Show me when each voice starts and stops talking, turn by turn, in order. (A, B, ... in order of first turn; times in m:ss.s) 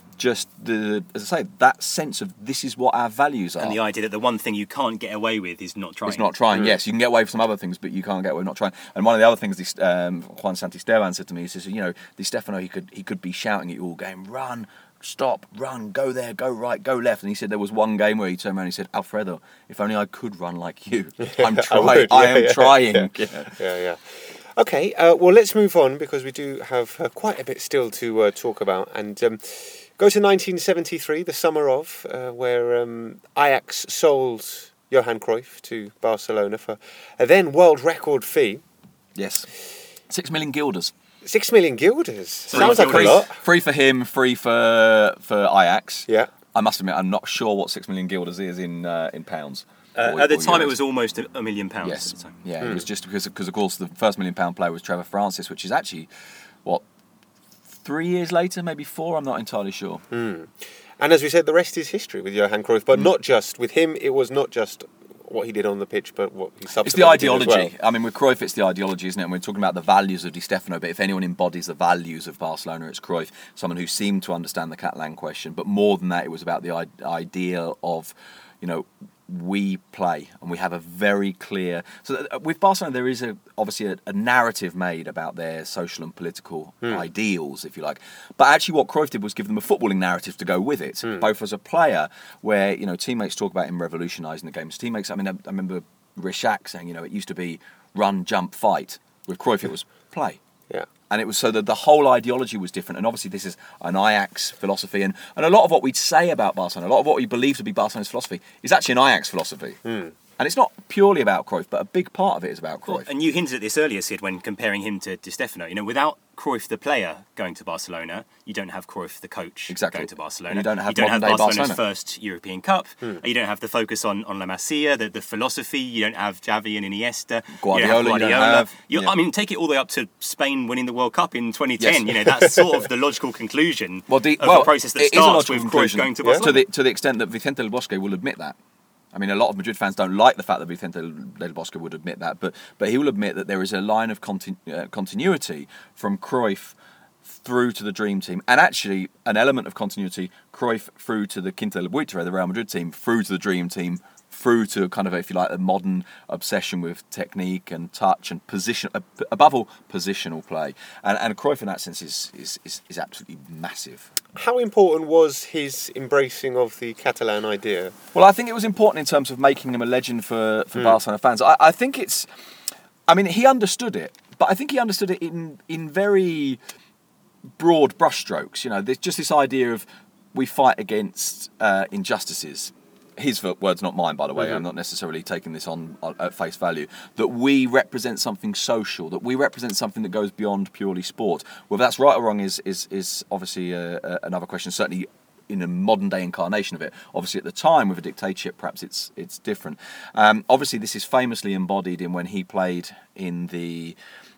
0:00.2-0:03.8 A
0:03.6-0:06.3 B
0:06.0-0:23.6 A
0:21.2-0:38.6 C
0:39.1-0:39.5 A
0:40.1-0:40.9 A
0:41.2-0:43.4 C
0:42.5-0:43.2 B
0:42.5-0:50.8 A
0:49.9-0:52.4 B
0:51.8-0:56.1 A
0:57.8-1:00.0 A
1:00.1-1:07.7 C
1:06.8-1:40.4 A
1:41.1-1:49.8 A
1:49.8-1:50.1 C
1:50.4-1:53.1 A
1:52.9-2:16.6 B
1:59.7-2:01.8 A
2:07.6-2:09.1 A
2:11.8-2:12.1 A
2:14.1-2:18.6 A
2:16.2-2:16.5 C
2:19.1-2:44.1 A
2:44.3-2:47.9 C
2:48.1-2:52.3 A
2:53.1-2:56.6 A
2:57.6-3:24.0 A